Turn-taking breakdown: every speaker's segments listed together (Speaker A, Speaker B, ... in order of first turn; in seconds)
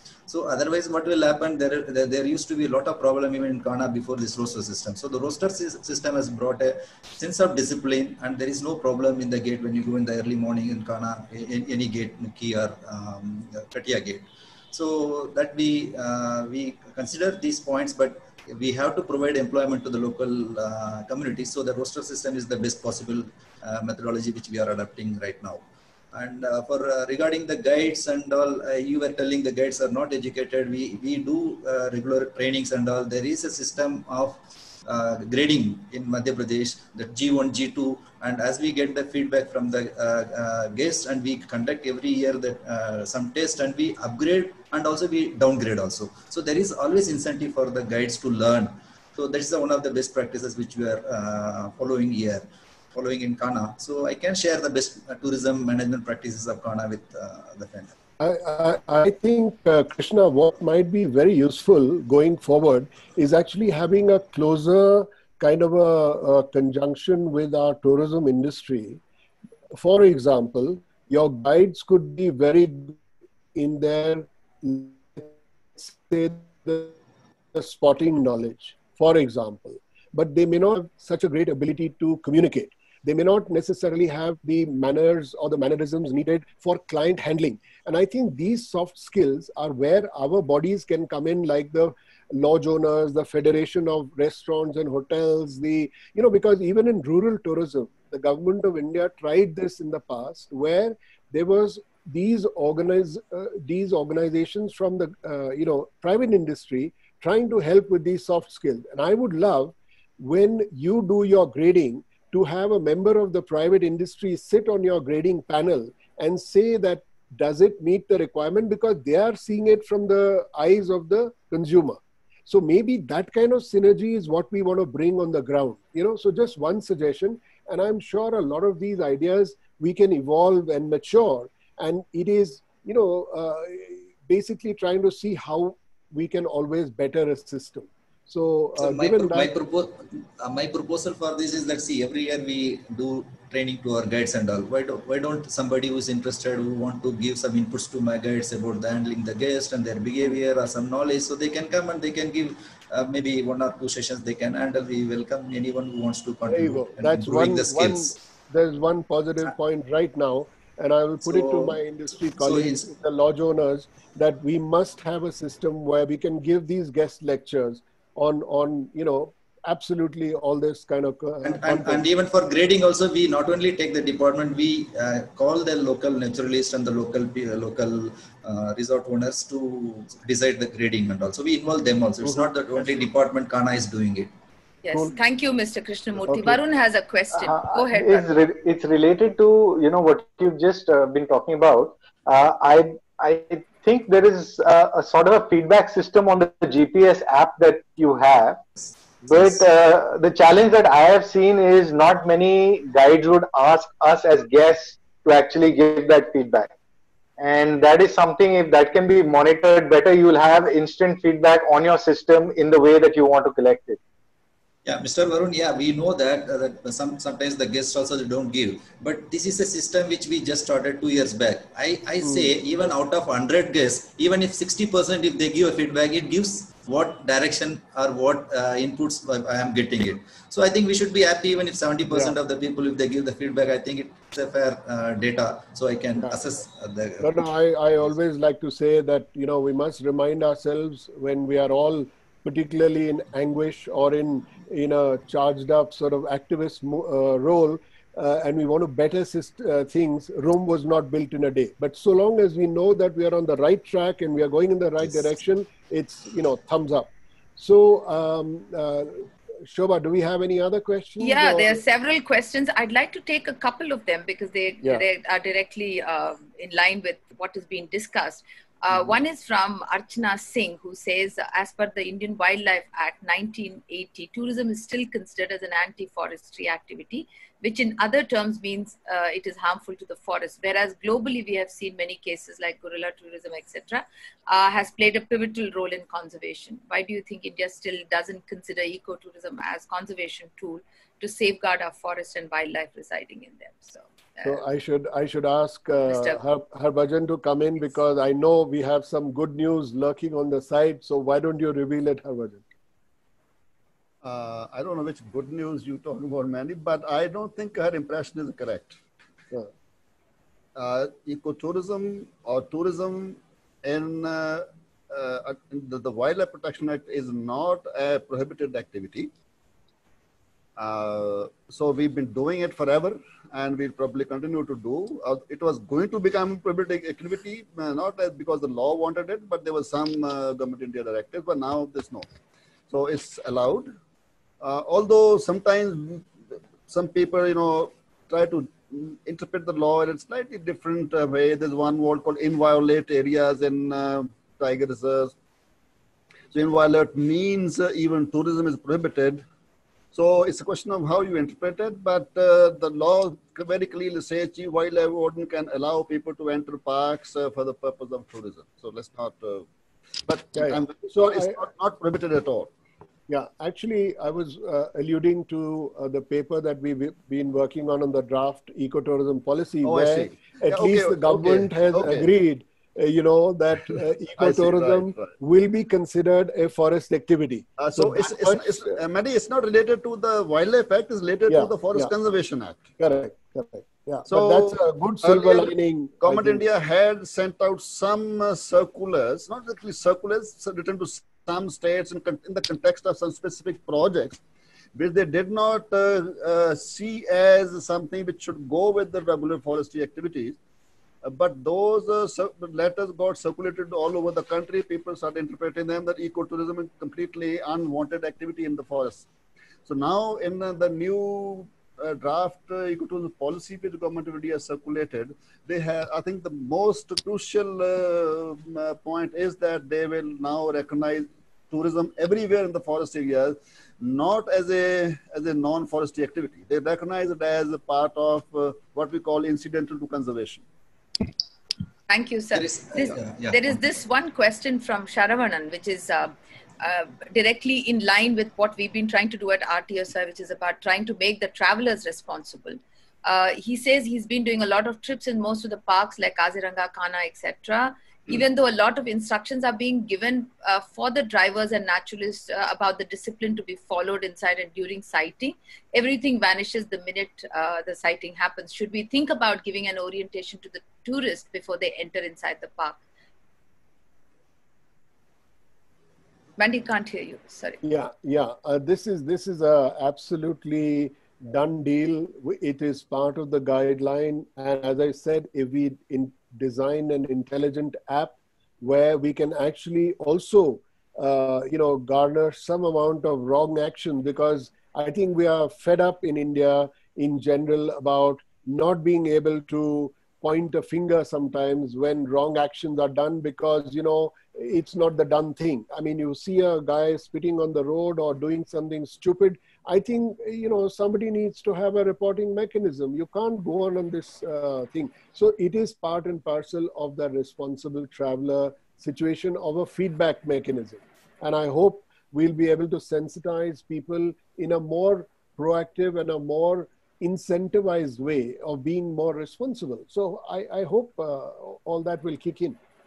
Speaker A: 0.3-25.6, 26.1-58.0, 138.8-158.2, 161.2-161.8, 162.4-162.9, 171.4-184.3, 198.8-199.6, 214.8-237.5, 255.0-255.3, 432.5-433.9
Speaker B: 58.2-69.0, 69.8-73.0, 73.5-77.0, 77.5-139.5, 156.5-172.1, 182.2-183.0, 186.3-186.6, 222.2-222.5, 232.1-232.4, 237.2-261.8, 294.4-302.6, 360.6-361.6, 363.3-379.0, 381.5-382.1, 383.0-386.6, 467.8-522.8
Speaker C: 184.8-188.3, 261.2-294.6, 296.1-296.4, 432.1-463.0, 466.6-467.8
Speaker D: 187.3-198.6, 199.2-206.7, 207.4-214.0
Speaker E: 304.2-309.0, 310.8-319.3, 320.8-332.3, 332.9-333.9, 334.6-336.3, 336.9-345.3, 346.5-349.4, 350.1-359.7, 360.2-362.7, 369.8-372.3, 374.4-375.3, 377.8-382.9, 384.3-394.4, 395.0-400.6, 401.2-409.3, 409.9-430.6